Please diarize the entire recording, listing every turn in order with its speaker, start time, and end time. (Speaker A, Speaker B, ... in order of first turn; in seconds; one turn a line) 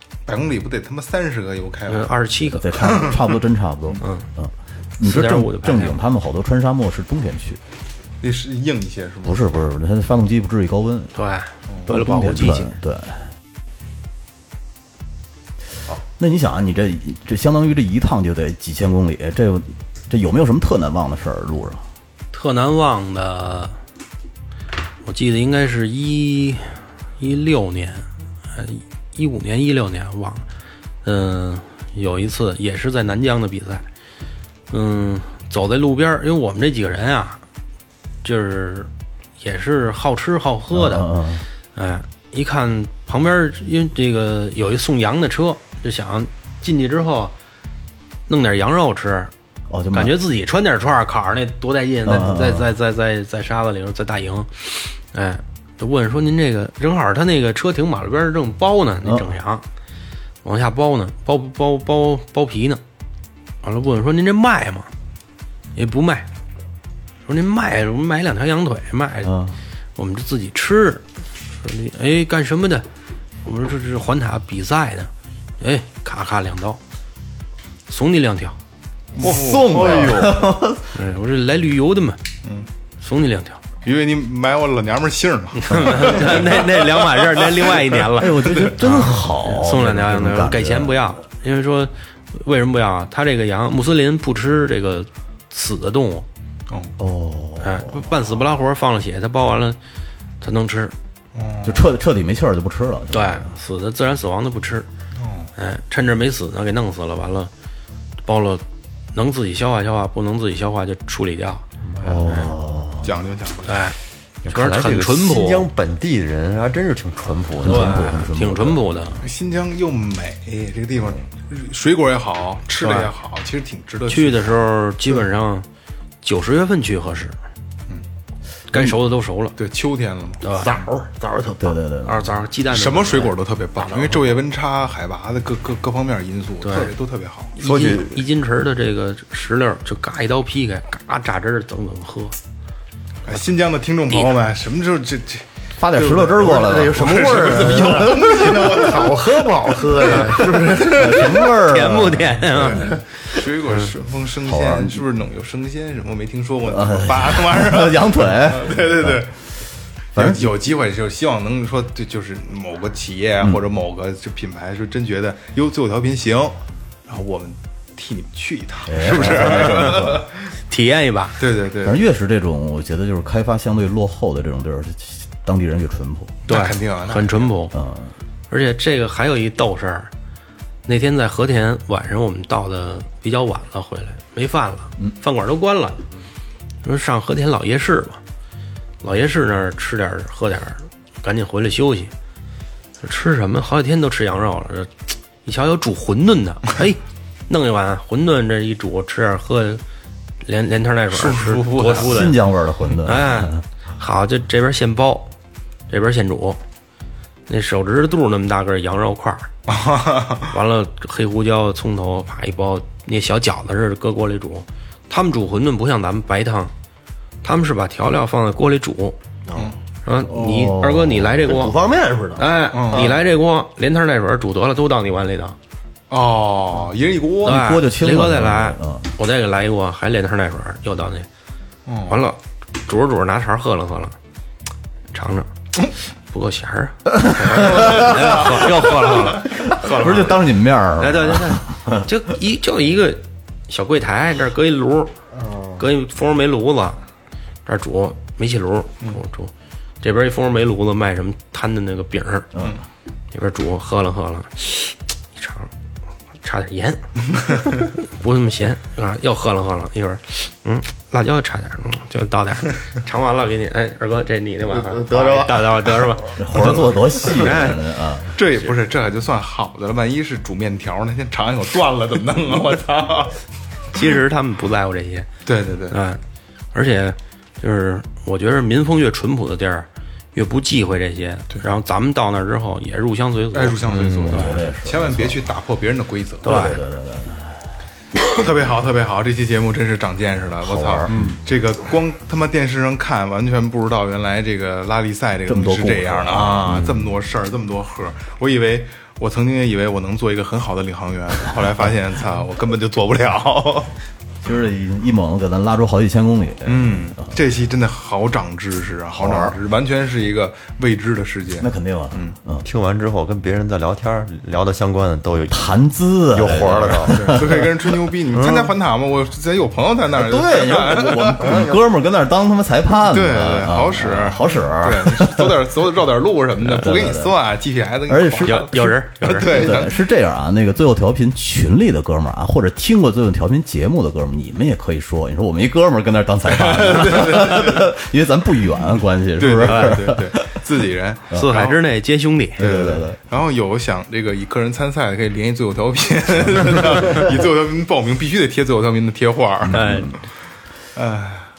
Speaker A: 0.3-2.1
Speaker B: 1.9-2.7
Speaker C: 2.5-7.6
Speaker A: 2.8-3.2
Speaker B: 4.0-4.3
Speaker B: 5.0-6.0
Speaker A: 8.2-9.4
Speaker C: 9.2-11.2
Speaker B: 11.2-12.7
Speaker C: 11.9-13.3
Speaker C: 16.2-21.9
Speaker B: 22.3-23.8
Speaker B: 25.1-30.4
Speaker B: 31.0-33.9
Speaker B: 34.7-37.4
Speaker B: 38.2-41.1
Speaker C: 40.7-41.5
Speaker B: 41.7-47.3
Speaker B: 48.3-49.3
Speaker C: 49.7-50.1
Speaker B: 49.9-59.6
Speaker C: 52.0-52.7
Speaker C: 59.0-59.3
Speaker B: 60.4-62.8
Speaker B: 63.6-64.9
Speaker B: 65.8-66.3
Speaker B: 67.3-69.3
Speaker C: 69.2-69.6
Speaker B: 70.0-72.9
Speaker B: 73.4-76.8
Speaker B: 77.9-78.6
Speaker A: 79.2-80.3
Speaker C: 79.2-81.0
Speaker D: 79.2-80.4
Speaker B: 80.9-82.2
Speaker B: 83.0-83.6
Speaker A: 83.8-87.3
Speaker B: 85.6-96.3
Speaker C: 88.1-91.1
Speaker A: 96.7-96.9
Speaker C: 97.0-98.4
Speaker B: 97.6-99.8
Speaker B: 100.4-100.9
Speaker A: 101.3-101.9
Speaker C: 101.6-103.5
Speaker B: 103.1-104.9
Speaker A: 105.2-105.5
Speaker B: 105.6-107.5
Speaker B: 108.2-111.7
Speaker D: 112.0-112.5
Speaker C: 112.0-113.1
Speaker A: 113.0-113.8
Speaker B: 113.7-114.0
Speaker D: 114.4-118.1
Speaker B: 114.5-115.7
Speaker C: 117.6-119.1
Speaker B: 117.6-119.2
Speaker A: 119.2-124.6
Speaker B: 122.8-123.1
Speaker B: 124.1-125.7
Speaker B: 126.2-127.4
Speaker B: 128.7-129.6
Speaker A: 129.6-130.9
Speaker B: 130.4-130.7
Speaker E: 130.5-131.8
Speaker C: 131.6-132.3
Speaker B: 132.1-134.1
Speaker A: 132.7-137.5
Speaker B: 136.6-136.9
Speaker B: 137.6-142.4
Speaker D: 137.6-138.2
Speaker A: 143.2-145.5
Speaker C: 145.8-148.2
Speaker E: 146.0-151.5
Speaker A: 146.8-150.6
Speaker C: 150.8-152.7
Speaker B: 151.4-153.4
Speaker A: 152.5-159.3
Speaker C: 154.4-155.0
Speaker C: 156.7-159.3
Speaker C: 160.1-160.5
Speaker A: 160.1-166.6
Speaker A: 167.1-170.4
Speaker C: 168.9-170.3
Speaker B: 170.7-171.4
Speaker A: 171.4-172.0
Speaker C: 171.8-176.4
Speaker A: 176.5-177.5
Speaker B: 176.5-177.8
Speaker C: 177.7-178.1
Speaker B: 178.5-180.1
Speaker B: 180.9-186.0
Speaker B: 186.8-188.2
Speaker B: 189.0-192.1
Speaker B: 193.0-199.8
Speaker B: 200.4-202.4
Speaker A: 201.1-202.3
Speaker C: 201.8-203.6
Speaker B: 203.1-205.3
Speaker B: 205.9-206.6
Speaker B: 207.5-209.5
Speaker A: 209.7-210.5
Speaker B: 210.5-216.7
Speaker B: 217.4-219.2
Speaker B: 220.1-221.8
Speaker C: 220.2-221.6
Speaker D: 221.5-222.5
Speaker B: 222.4-225.6
Speaker A: 222.7-223.1
Speaker A: 226.1-227.6
Speaker C: 227.4-229.1
Speaker B: 227.4-231.3
Speaker A: 231.9-232.2
Speaker B: 232.1-234.2
Speaker B: 235.1-240.4
Speaker C: 237.1-242.0
Speaker B: 241.0-245.1
Speaker E: 245.4-245.7
Speaker B: 245.8-247.0
Speaker B: 247.7-252.5
Speaker C: 252.5-252.8
Speaker B: 253.3-255.7
Speaker B: 256.4-267.8
Speaker E: 264.7-266.2
Speaker C: 266.4-268.4
Speaker A: 268.4-273.4
Speaker B: 273.9-275.3
Speaker A: 275.5-276.0
Speaker B: 275.9-276.2
Speaker B: 276.7-284.5
Speaker A: 283.5-286.7
Speaker D: 283.9-284.6
Speaker C: 284.3-285.4
Speaker B: 286.4-286.8
Speaker C: 286.4-287.7
Speaker A: 288.3-303.9
Speaker C: 290.6-291.4
Speaker C: 295.5-296.8
Speaker D: 296.7-297.0
Speaker C: 304.4-307.4
Speaker A: 306.7-312.4
Speaker C: 309.1-309.6
Speaker C: 311.6-312.7
Speaker D: 312.6-315.7
Speaker C: 315.5-317.9
Speaker D: 316.3-317.5
Speaker A: 317.1-321.7
Speaker D: 318.3-318.7
Speaker C: 320.1-325.7
Speaker D: 321.4-321.8
Speaker A: 323.0-330.0
Speaker C: 326.6-327.4
Speaker C: 328.1-340.4
Speaker B: 328.4-329.6
Speaker A: 336.5-337.9
Speaker A: 339.4-341.8
Speaker B: 341.3-342.6
Speaker C: 342.6-343.2
Speaker A: 342.6-350.0
Speaker C: 349.7-350.1
Speaker B: 349.7-350.1
Speaker A: 350.9-351.5